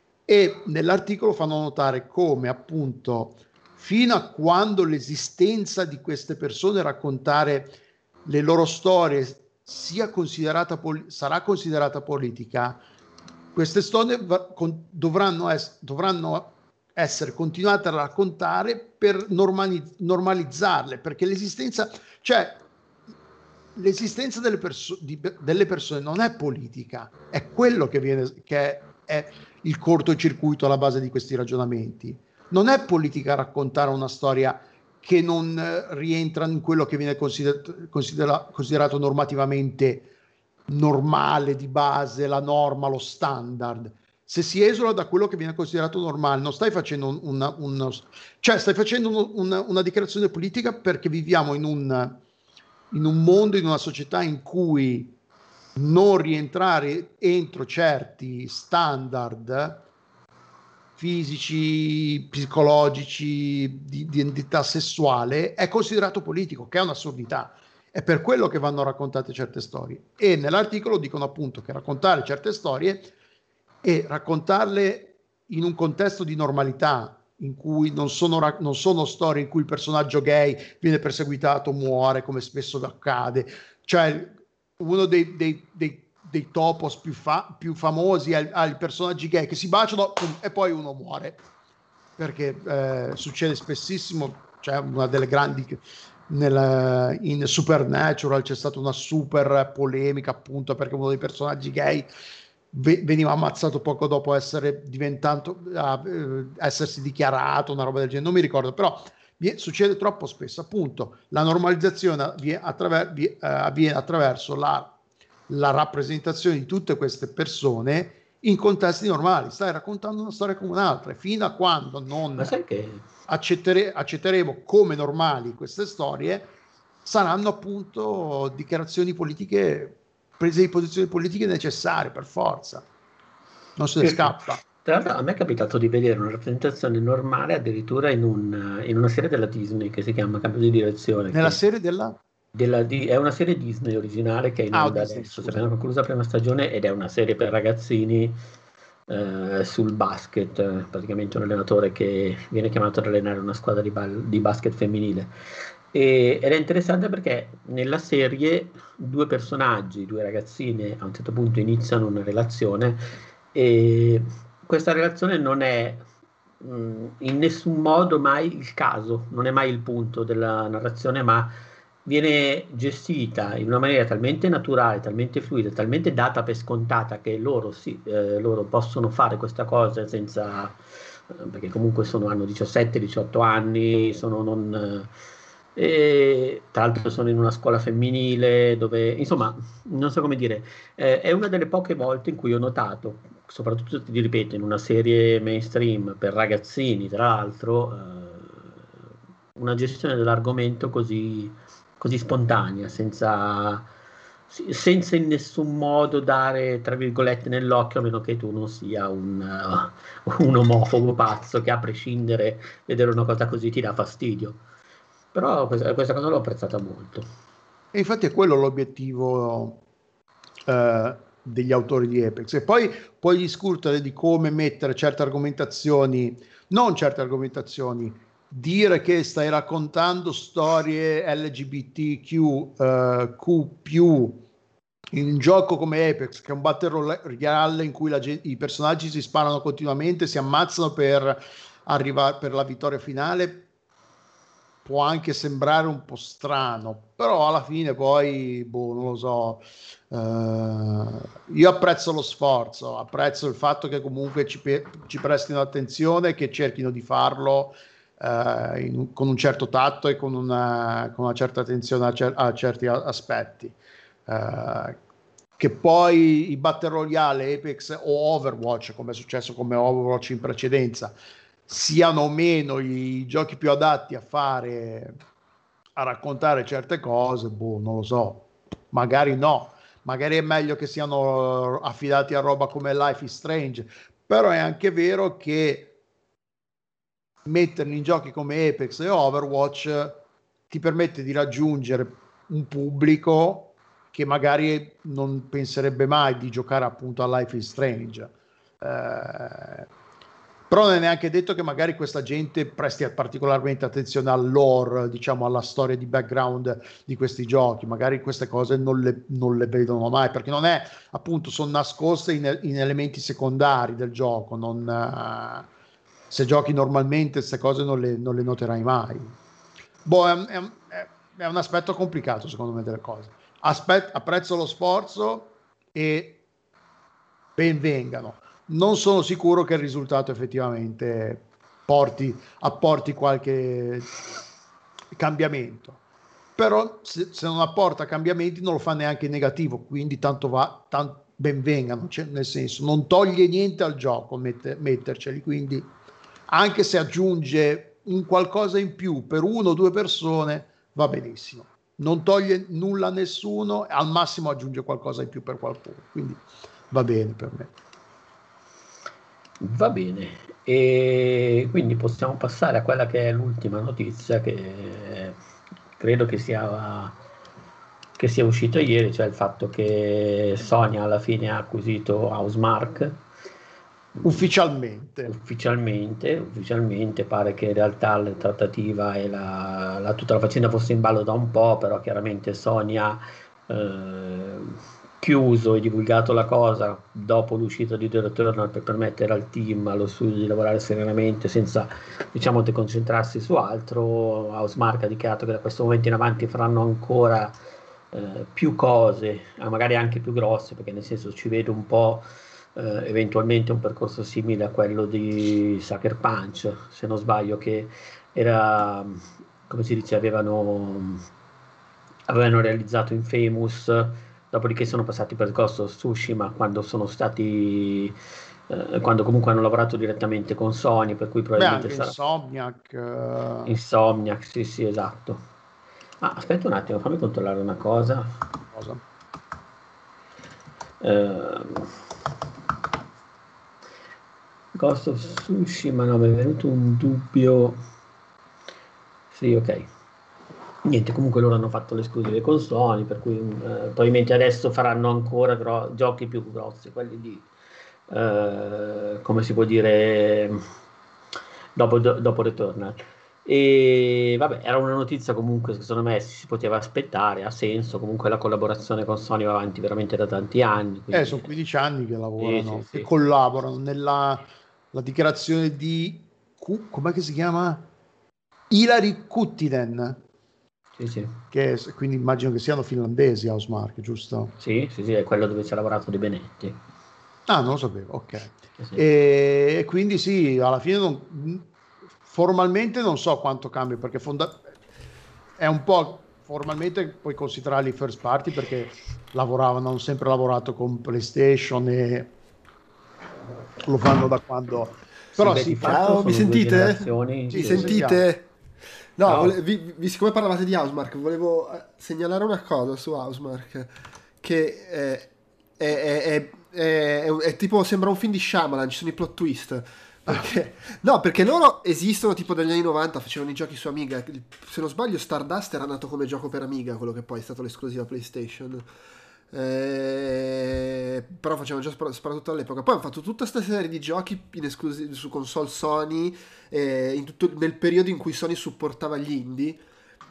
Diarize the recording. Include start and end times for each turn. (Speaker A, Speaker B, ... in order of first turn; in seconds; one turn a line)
Speaker A: 0.3-12.8
Speaker A: 13.5-22.6
Speaker A: 23.7-40.1
Speaker A: 40.7-52.2
Speaker A: 52.9-55.1
Speaker A: 55.7-59.8
Speaker A: 61.0-73.1
Speaker A: 73.8-91.4
Speaker A: 92.2-102.1
Speaker A: 102.7-115.0
Speaker A: 115.5-122.5
Speaker B: 122.4-123.0
Speaker A: 123.3-126.5
Speaker A: 127.0-132.8
Speaker A: 133.8-134.6
Speaker B: 134.0-141.6
Speaker A: 141.3-142.2
Speaker B: 142.5-148.4
Speaker A: 144.7-145.7
Speaker B: 149.1-155.3
Speaker B: 155.9-166.0
Speaker B: 166.6-180.8
Speaker B: 181.3-185.1
Speaker B: 185.8-198.7
Speaker B: 199.5-203.9
Speaker B: 204.5-214.6
Speaker B: 215.3-217.3
Speaker A: 217.9-219.8
Speaker A: 220.7-234.4
Speaker A: 235.1-243.7
Speaker A: 244.8-263.8
Speaker A: 264.3-265.0
Speaker A: 265.6-271.1
Speaker A: 271.7-275.2
Speaker A: 276.0-285.9
Speaker A: 287.4-299.9
Speaker A: 300.7-315.7
Speaker A: 316.3-319.3
Speaker A: 320.0-326.4
Speaker A: 327.6-334.1
Speaker A: 335.1-336.0
Speaker A: 336.6-345.9
Speaker A: 346.5-357.7
Speaker B: 359.6-365.4
Speaker B: 366.0-367.1
Speaker B: 368.2-373.2
Speaker A: 374.2-375.3
Speaker B: 375.2-397.6
Speaker B: 398.1-402.2
Speaker B: 402.8-411.2
Speaker B: 412.3-418.1
Speaker B: 418.7-422.1
Speaker A: 421.6-423.7
Speaker B: 423.6-425.4
Speaker B: 426.2-428.4
Speaker A: 428.7-429.0
Speaker B: 431.0-432.0
Speaker B: 434.7-437.8
Speaker B: 439.3-439.9
Speaker B: 440.8-447.5
Speaker B: 448.1-450.6
Speaker B: 451.8-461.5
Speaker A: 461.1-467.9
Speaker B: 462.4-463.1
Speaker A: 468.7-470.2
Speaker B: 471.0-471.4
Speaker A: 471.5-474.5
Speaker B: 474.6-476.8
Speaker A: 477.5-481.6
Speaker A: 482.2-484.7
Speaker A: 485.6-492.3
Speaker A: 493.8-496.0
Speaker B: 495.3-498.0
Speaker C: 495.8-498.5
Speaker A: 497.5-498.2
Speaker C: 499.2-518.9
Speaker B: 499.3-499.5
Speaker C: 519.5-529.8